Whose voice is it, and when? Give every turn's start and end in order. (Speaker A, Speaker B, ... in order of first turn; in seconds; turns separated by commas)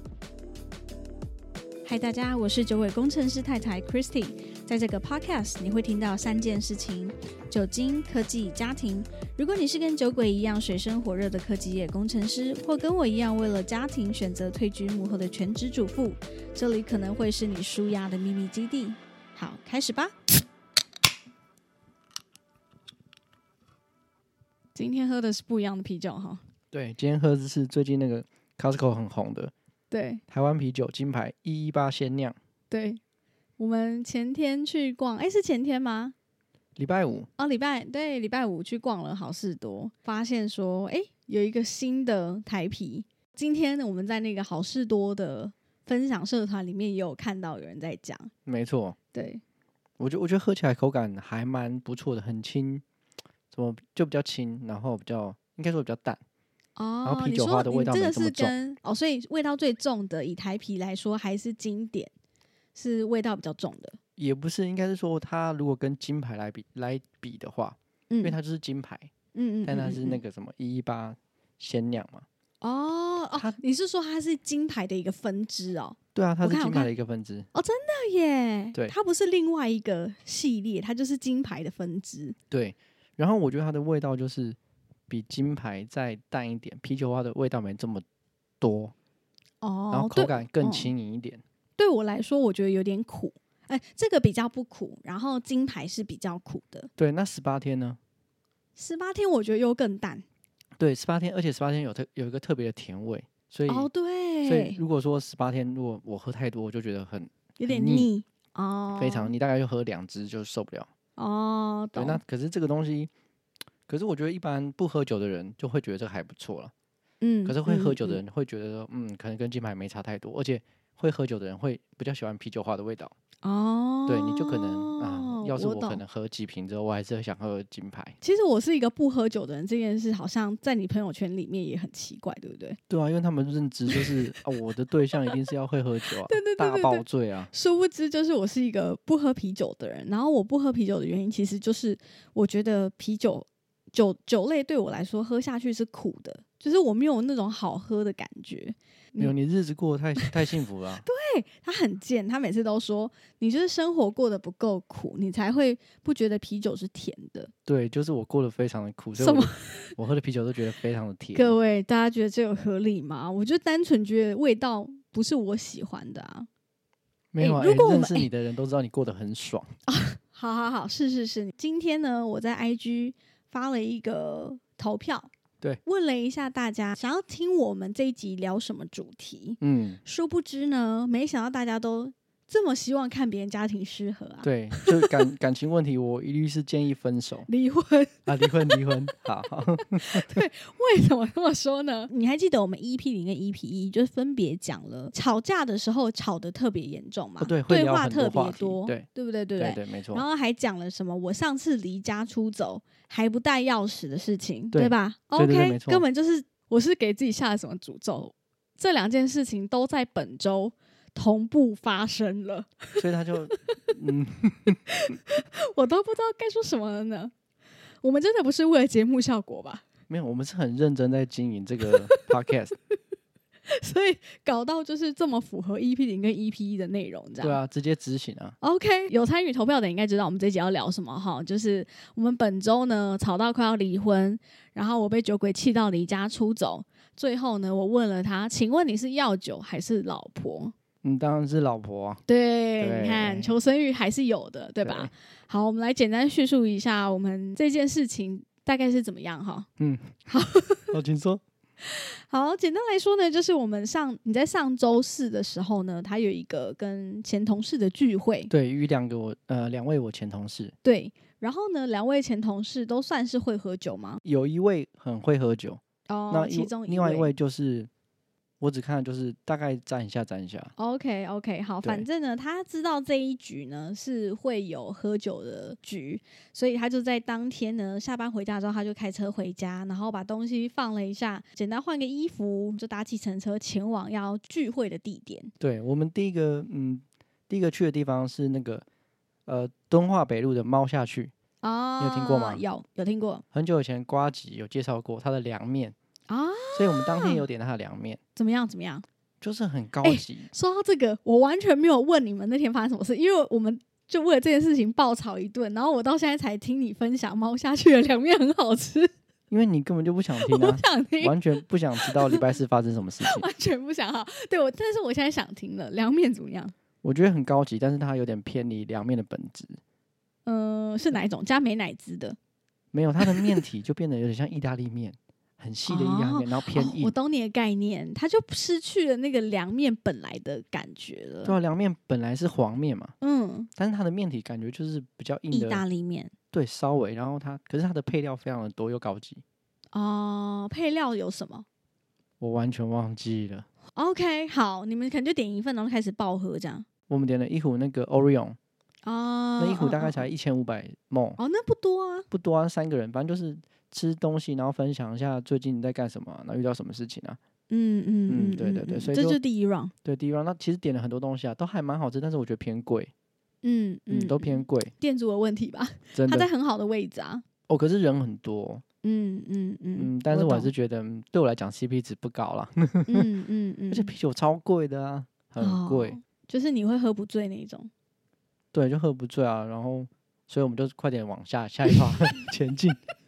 Speaker A: 1.9-20.1, Speaker A: 24.8-26.4, Speaker B: 26.7-29.5, Speaker A: 29.9-30.2, Speaker B: 30.3-32.4, Speaker A: 32.7-33.0, Speaker A: 33.6-36.1, Speaker B: 36.8-37.3, Speaker A: 37.4-48.3, Speaker B: 48.5-49.0, Speaker A: 49.1-49.4, Speaker B: 50.0-52.8, Speaker B: 53.5-56.2, Speaker A: 56.8-62.1, Speaker B: 57.0-58.5, Speaker A: 62.8-64.0, Speaker B: 64.2-69.1, Speaker A: 68.1-68.3, Speaker A: 69.3-70.2, Speaker B: 69.7-72.3, Speaker A: 72.6-76.9, Speaker B: 76.2-77.5, Speaker A: 77.5-82.4, Speaker B: 82.5-84.6, Speaker B: 85.1-88.0, Speaker B: 88.6-88.9, Speaker A: 89.6-90.9, Speaker B: 89.9-91.4, Speaker A: 91.8-96.9, Speaker B: 97.0-98.0, Speaker A: 98.8-100.2, Speaker B: 100.8-103.9, Speaker A: 103.7-104.8, Speaker B: 104.5-108.1, Speaker A: 107.6-109.3, Speaker B: 109.0-110.9, Speaker A: 111.2-112.2, Speaker B: 112.0-113.1, Speaker B: 113.9-116.7, Speaker A: 117.2-118.2, Speaker B: 117.5-123.1, Speaker A: 123.4-126.0, Speaker B: 124.1-128.2, Speaker A: 128.2-132.8, Speaker B: 132.9-137.5, Speaker A: 133.9-134.3, Speaker A: 136.2-149.3, Speaker B: 149.2-151.1, Speaker A: 151.0-157.5, Speaker B: 157.7-161.6, Speaker A: 159.2-159.9, Speaker A: 161.3-166.5, Speaker B: 167.3-169.7, Speaker A: 167.4-168.3, Speaker A: 169.9-175.3, Speaker A: 175.8-185.2, Speaker B: 179.6-180.0, Speaker B: 184.4-187.5, Speaker A: 187.5-188.9, Speaker B: 188.3-190.4, Speaker A: 189.9-213.0, Speaker B: 197.4-199.1, Speaker B: 199.6-200.2, Speaker B: 204.7-206.0, Speaker B: 213.0-214.8, Speaker A: 214.9-217.3, Speaker A: 218.0-219.8, Speaker B: 220.1-222.8, Speaker A: 221.9-222.3, Speaker A: 223.7-227.6, Speaker B: 227.4-228.6, Speaker A: 228.6-240.7, Speaker B: 241.0-242.2, Speaker A: 242.3-249.7, Speaker B: 242.8-243.5, Speaker B: 244.8-245.1, Speaker B: 249.8-250.1, Speaker A: 250.3-251.0, Speaker B: 250.9-251.4, Speaker A: 251.8-258.5, Speaker B: 258.5-260.8, Speaker A: 260.8-264.2, Speaker B: 264.2-267.9, Speaker A: 266.1-267.3, Speaker B: 268.6-270.7, Speaker A: 270.8-285.5, Speaker B: 285.6-288.9, Speaker B: 289.5-291.3, Speaker A: 291.6-293.4, Speaker B: 292.0-292.6, Speaker B: 293.5-295.9, Speaker A: 296.3-297.4, Speaker B: 296.7-298.2, Speaker A: 298.4-299.1, Speaker B: 299.4-300.5, Speaker A: 300.0-309.1, Speaker B: 309.5-313.5, Speaker A: 310.4-312.5, Speaker A: 313.2-316.7, Speaker B: 317.0-319.8, Speaker A: 320.5-322.4, Speaker B: 322.9-327.1, Speaker A: 323.2-323.6, Speaker A: 325.9-331.6, Speaker B: 331.4-333.1, Speaker A: 333.2-333.7, Speaker B: 333.8-335.9, Speaker A: 335.5-336.3, Speaker B: 336.5-339.4, Speaker A: 339.9-341.6, Speaker B: 342.4-343.7, Speaker A: 344.0-346.9, Speaker B: 347.1-348.6, Speaker A: 349.1-350.3, Speaker B: 349.6-351.4, Speaker A: 351.4-352.3, Speaker B: 352.3-357.4, Speaker A: 357.7-359.9, Speaker B: 358.3-359.4, Speaker B: 360.0-363.1, Speaker A: 363.6-367.4, Speaker B: 364.1-364.9, Speaker B: 366.1-366.5, Speaker B: 367.7-368.8, Speaker A: 369.0-370.7, Speaker B: 370.0-373.3, Speaker A: 373.1-374.1, Speaker B: 373.9-376.2, Speaker A: 375.6-377.9, Speaker B: 378.7-383.0